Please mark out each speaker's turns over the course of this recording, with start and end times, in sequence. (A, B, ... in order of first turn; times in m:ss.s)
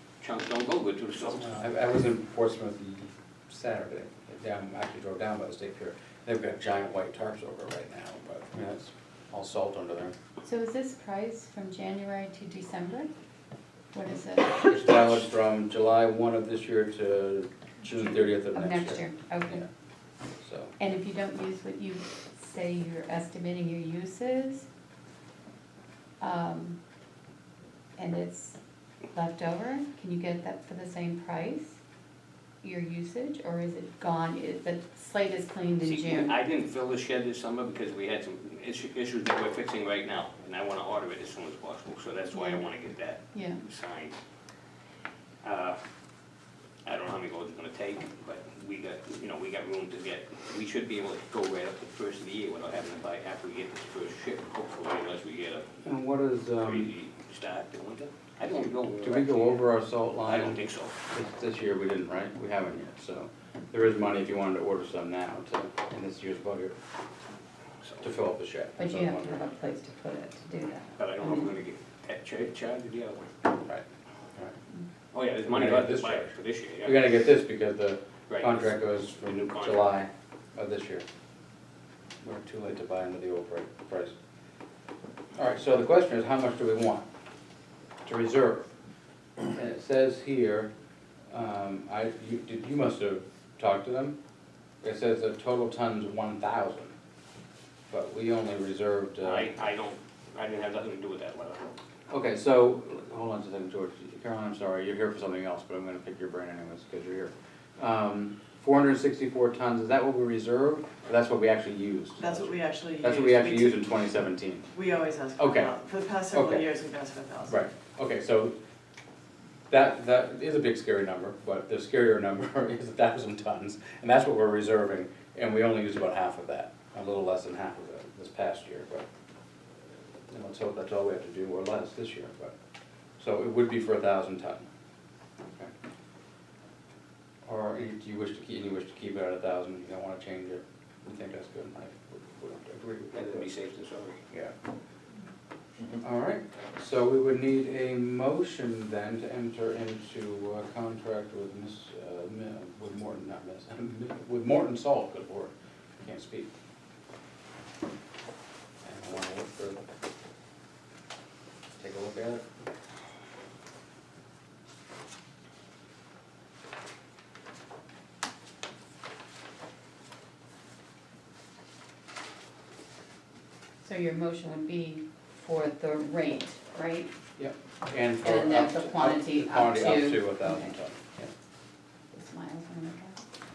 0:00.2-0:01.6 A
0:01.4-0:10.1 B
0:10.4-0:13.1 C
0:13.9-0:14.9 C
0:14.6-0:19.7 B
0:18.4-0:19.6 C
0:20.4-0:20.7 B
0:20.8-0:24.7 C
0:26.2-0:26.8 C
0:28.0-0:28.6 C
0:29.1-0:31.8 C
0:32.6-0:36.4 C
0:35.8-0:44.2 A
0:42.3-0:42.6 C
0:43.3-0:43.6 C
0:45.4-0:45.8 A
0:46.8-0:55.7 A
0:55.8-0:56.9 B
0:56.6-0:59.7 A
0:59.0-1:06.8 B
1:00.2-1:01.0 A
1:07.8-1:08.0 A
1:08.0-1:09.5 B
1:08.8-1:11.5 C
1:11.0-1:13.3 A
1:15.1-1:17.1 A
1:15.4-1:16.3 B
1:16.8-1:21.0 B
1:18.3-1:19.9 A
1:22.2-1:24.1 B
1:25.4-1:27.0 B
1:28.0-1:28.7 B
1:29.5-1:30.7 B
1:31.3-1:34.2 B
1:34.8-1:36.9 B
1:37.9-1:39.5 B
1:39.2-1:41.8 A
1:42.1-1:54.7 B
1:52.2-1:53.9 D
1:54.7-1:57.6 D
1:55.4-1:55.7 B
1:56.3-1:56.7 B
1:57.5-1:58.5 B
1:59.7-2:09.0 B
2:10.3-2:12.5 B
2:13.2-2:14.6 B
2:15.4-2:15.7 B
2:17.4-2:23.5 B
2:23.1-2:24.2 A
2:26.0-2:36.5 B
2:38.8-2:39.8 B
2:41.8-2:42.4 B
2:53.8-2:57.1 C
2:57.4-3:01.3 B
2:58.2-3:00.7 C
3:02.1-3:03.2 C